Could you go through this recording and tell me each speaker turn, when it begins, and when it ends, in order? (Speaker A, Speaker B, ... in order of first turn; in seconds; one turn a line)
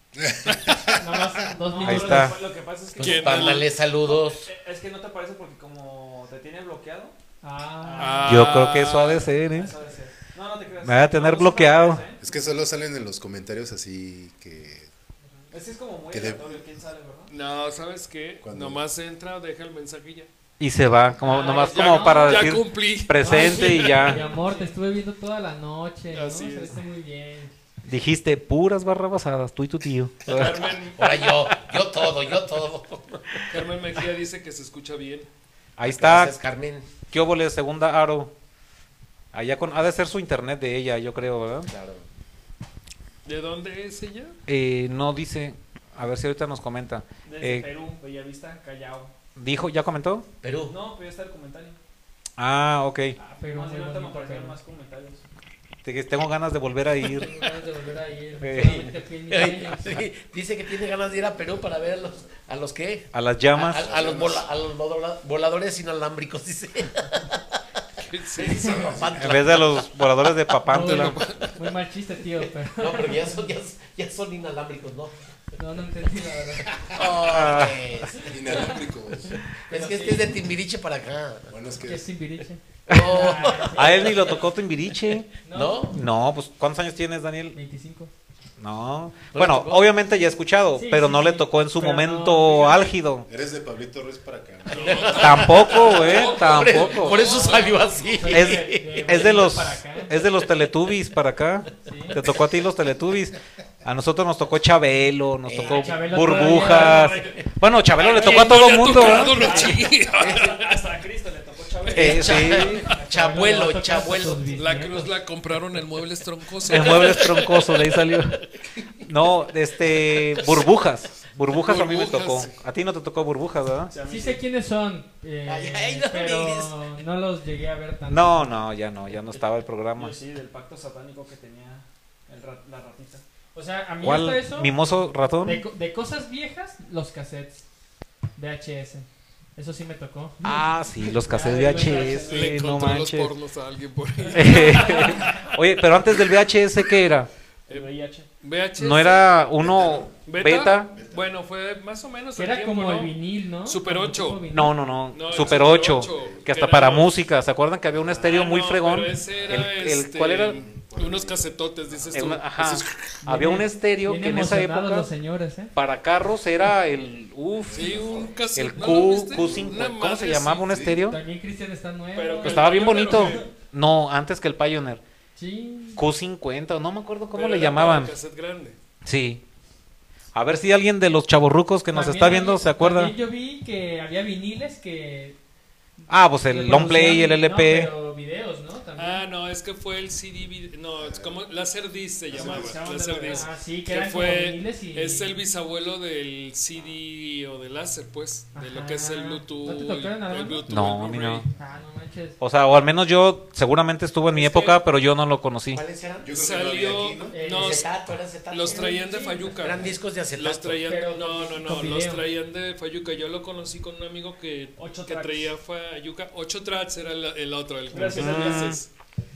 Speaker A: 0.2-1.0
Speaker B: 0.5-0.8
Speaker C: 0.9-2.3
Speaker D: 1.6-7.1
Speaker E: 1.8-2.4
Speaker F: 3.0-4.5
Speaker B: 3.0-3.7
Speaker C: 7.4-8.5
Speaker D: 7.8-8.9
Speaker B: 8.0-9.3
Speaker E: 8.2-9.7
Speaker D: 9.4-12.2
Speaker E: 10.8-12.0
Speaker A: 12.2-14.9
Speaker D: 15.5-17.3
Speaker A: 16.1-16.6
Speaker B: 17.3-20.3
Speaker A: 18.4-18.8
Speaker E: 20.6-24.3
Speaker C: 21.2-22.6
Speaker B: 21.3-24.2
Speaker C: 23.2-27.5
Speaker D: 24.1-24.7
Speaker B: 26.1-26.8
Speaker E: 27.9-30.7
Speaker B: 30.2-31.6
Speaker F: 30.9-33.6
Speaker B: 33.5-35.3
Speaker E: 35.8-36.4
Speaker F: 35.8-36.9
Speaker E: 37.1-38.3
Speaker E: 39.3-41.7
Speaker F: 41.7-42.0
Speaker B: 43.2-44.4
Speaker E: 44.5-47.7
Speaker D: 47.2-49.1
Speaker E: 49.4-50.3
Speaker F: 50.4-50.7
Speaker D: 50.7-51.8
Speaker E: 52.4-53.2
Speaker D: 53.2-55.2
Speaker C: 53.4-54.5
Speaker E: 55.8-57.3
Speaker C: 57.0-60.0
Speaker E: 58.4-58.9
Speaker F: 59.3-67.4
Speaker E: 63.1-63.9
Speaker A: 63.7-64.5
Speaker B: 68.1-69.0
Speaker F: 68.3-69.8
Speaker A: 68.7-69.2
Speaker E: 69.1-71.2
Speaker C: 70.7-73.4
Speaker B: 70.7-71.6
Speaker F: 72.7-75.1
Speaker C: 75.6-76.7
Speaker F: 76.7-78.8
Speaker E: 77.2-77.8
Speaker A: 78.1-79.4
Speaker F: 79.5-81.6
Speaker C: 79.7-80.3
Speaker A: 81.5-82.1
Speaker C: 81.8-84.5
Speaker F: 82.9-84.4
Speaker E: 82.9-85.3
Speaker C: 85.4-85.9
Speaker F: 85.5-86.0
Speaker E: 85.9-87.5
Speaker C: 87.5-88.1
Speaker E: 88.6-93.3
Speaker F: 89.3-89.9
Speaker C: 90.7-93.0
Speaker A: 93.3-95.3
Speaker B: 94.7-98.2
Speaker F: 94.7-99.0
Speaker E: 95.2-97.3
Speaker C: 98.1-100.2
Speaker E: 98.3-109.7
Speaker C: 101.8-102.2
Speaker F: 105.5-106.1
Speaker C: 105.6-107.3
Speaker D: 106.4-107.4
Speaker D: 108.0-113.1
Speaker B: 108.0-110.8
Speaker F: 109.4-109.7
Speaker F: 110.2-110.5
Speaker E: 111.9-112.9
Speaker F: 111.9-114.5
Speaker B: 112.0-113.0
Speaker C: 112.9-115.2
Speaker B: 114.5-117.5
Speaker E: 116.6-118.4
Speaker F: 116.7-117.7
Speaker E: 119.0-123.9
Speaker F: 120.0-120.6
Speaker B: 121.5-122.5
Speaker D: 123.9-124.4
Speaker C: 124.0-128.6
Speaker F: 125.5-126.8
Speaker E: 128.1-130.1
Speaker D: 129.9-133.2
Speaker C: 133.5-134.8
Speaker E: 134.0-135.6
Speaker C: 135.4-137.6
Speaker C: 138.3-142.5
Speaker E: 140.4-143.3
Speaker D: 141.3-142.5
Speaker B: 142.2-145.6
Speaker E: 144.3-147.3
Speaker D: 144.7-145.1
Speaker D: 147.7-148.3
Speaker B: 148.4-149.3
Speaker E: 148.8-150.9
Speaker A: 149.6-150.2
Speaker B: 150.2-154.4
Speaker A: 150.9-151.3
Speaker C: 152.3-154.8
Speaker E: 154.5-160.6
Speaker B: 155.1-157.2
Speaker A: 155.3-156.5
Speaker A: 157.9-158.5
Speaker B: 158.2-162.8
Speaker A: 159.2-159.9
Speaker A: 160.4-162.9
Speaker E: 162.1-165.1
Speaker C: 163.2-165.7
Speaker E: 165.7-171.2
Speaker A: 167.6-169.9
Speaker B: 167.7-170.8
Speaker A: 170.7-171.0
Speaker C: 170.9-173.4
Speaker B: 172.1-173.5
Speaker E: 172.4-175.0
Speaker C: 175.3-176.0
Speaker E: 176.0-178.1
Speaker B: 177.3-178.8
Speaker E: 179.0-179.4
Speaker E: 180.3-183.1
Speaker C: 181.9-185.4
Speaker C: 186.0-189.2
Speaker E: 186.1-187.9
Speaker B: 188.9-201.4
Speaker A: 191.0-191.4
Speaker A: 192.3-192.8
Speaker D: 192.3-193.5
Speaker C: 193.2-195.4
Speaker C: 198.5-200.9
Speaker E: 200.7-201.5
Speaker C: 201.5-202.4
Speaker E: 202.4-205.8
Speaker B: 204.3-204.8
Speaker F: 205.7-206.3
Speaker A: 206.2-207.4
Speaker B: 206.3-207.9
Speaker C: 207.3-207.8
Speaker F: 207.5-210.8
Speaker B: 208.5-218.9
Speaker C: 208.6-209.6
Speaker C: 210.8-212.2
Speaker D: 214.8-215.5
Speaker D: 217.9-218.8
Speaker E: 218.1-218.8